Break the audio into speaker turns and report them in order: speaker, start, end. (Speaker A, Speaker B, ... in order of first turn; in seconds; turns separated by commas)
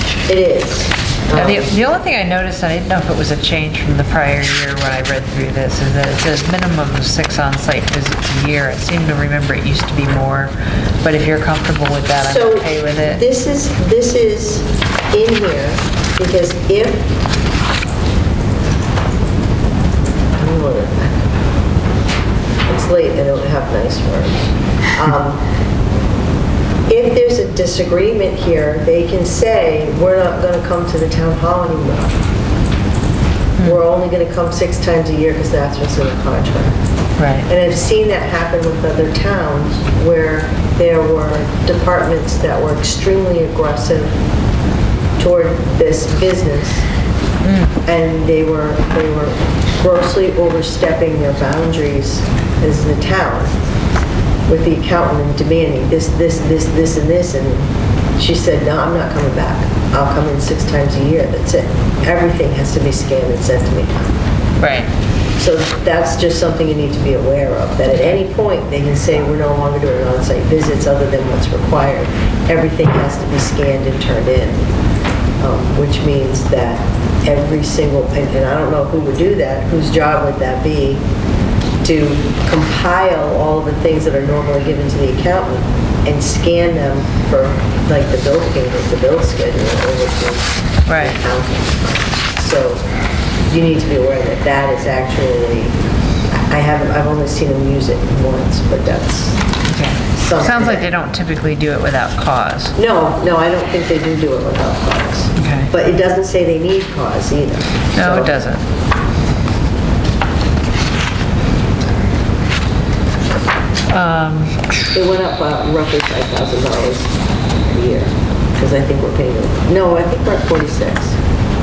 Speaker A: 0.3-1.7, Speaker B: 1.4-13.2, Speaker A: 12.2-17.1, Speaker A: 20.3-21.3, Speaker A: 22.7-25.4, Speaker A: 26.9-32.2, Speaker A: 33.6-36.8, Speaker B: 37.2-37.5, Speaker A: 37.5-44.2, Speaker A: 45.2-46.8, Speaker B: 47.4-47.7, Speaker A: 47.9-53.5, Speaker A: 54.5-64.1, Speaker B: 64.6-64.9, Speaker A: 65.4-74.7, Speaker A: 75.4-81.0, Speaker A: 81.8-92.8, Speaker B: 90.8-91.2, Speaker A: 93.5-95.8, Speaker A: 96.3-99.4, Speaker B: 99.7-102.8, Speaker A: 100.1-100.9, Speaker A: 102.8-108.3, Speaker B: 105.3-105.7, Speaker B: 107.9-108.6, Speaker B: 113.9-114.9, Speaker A: 114.9-121.2